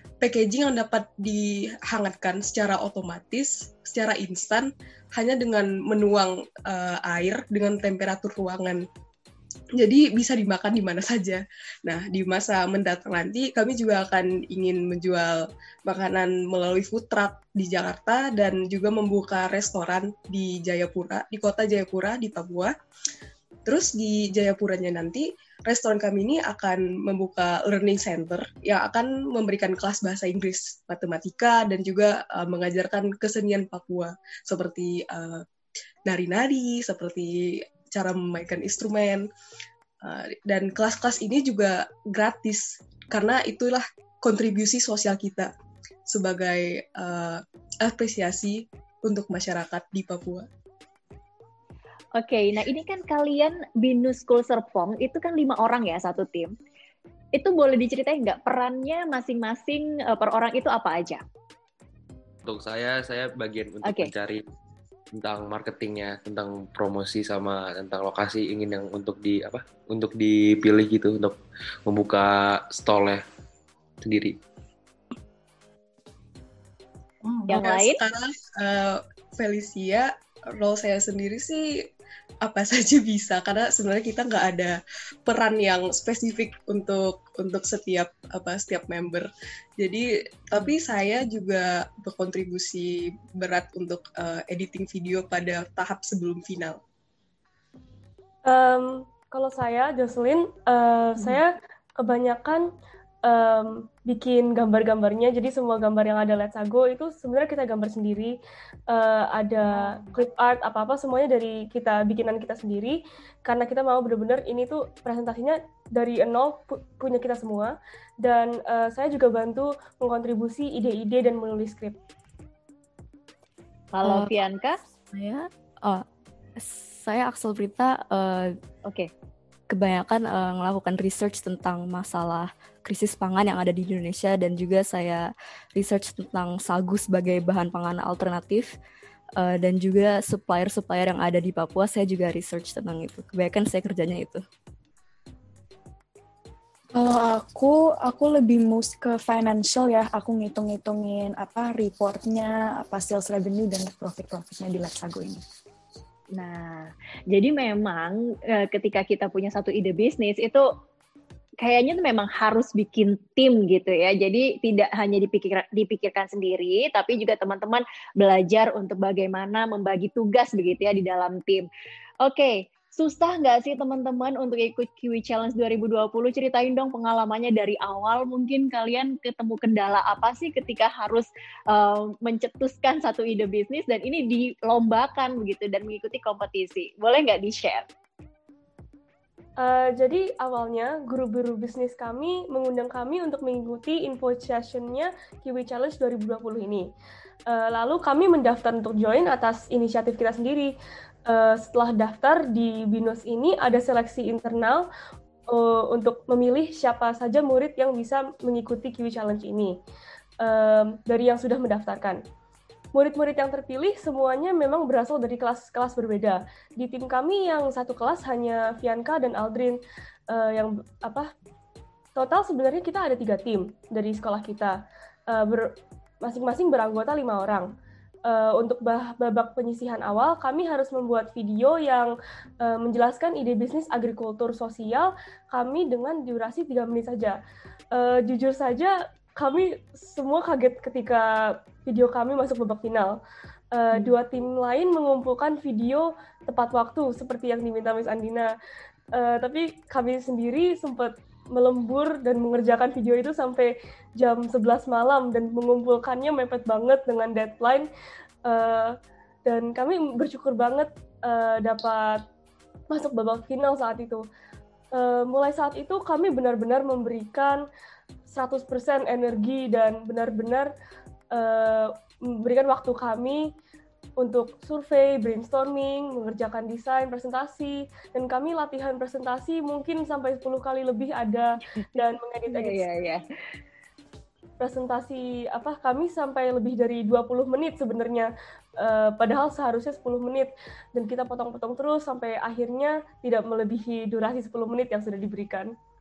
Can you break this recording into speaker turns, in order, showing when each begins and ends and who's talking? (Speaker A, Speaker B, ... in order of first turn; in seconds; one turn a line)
Speaker A: 0.2-8.8
Speaker A: 9.8-22.7
Speaker A: 23.6-35.4
Speaker A: 36.0-39.3
Speaker A: 40.0-45.5
Speaker A: 46.1-50.5
Speaker B: 52.1-56.5
Speaker B: 57.3-61.2
Speaker C: 62.4-64.4
Speaker B: 63.8-64.1
Speaker C: 65.1-73.2
Speaker C: 74.0-74.4
Speaker A: 77.3-81.8
Speaker B: 77.5-78.0
Speaker A: 82.4-89.3
Speaker A: 89.8-96.8
Speaker D: 98.4-102.7
Speaker D: 103.2-108.4
Speaker D: 108.9-122.0
Speaker B: 123.9-124.8
Speaker E: 124.0-124.3
Speaker E: 125.1-126.0
Speaker E: 126.6-128.5
Speaker B: 128.8-129.1
Speaker E: 129.7-138.7
Speaker E: 139.4-144.4
Speaker F: 146.9-155.4
Speaker B: 156.3-160.7
Speaker B: 161.6-171.7
Speaker B: 172.2-187.9
Speaker D: 189.6-196.9
Speaker D: 197.5-200.7
Speaker D: 201.2-204.9
Speaker D: 205.5-209.8
Speaker D: 210.4-212.2
Speaker D: 212.9-221.3
Speaker D: 222.2-224.8
Speaker D: 225.3-227.7
Speaker D: 228.2-237.4
Speaker D: 237.9-243.2
Speaker D: 243.7-248.5
Speaker D: 249.1-257.9
Speaker D: 258.4-262.2
Speaker D: 262.9-264.2
Speaker D: 264.9-267.6
Speaker D: 268.3-270.7
Speaker D: 271.3-273.5
Speaker D: 274.2-282.8
Speaker B: 282.0-283.2
Speaker D: 284.6-295.7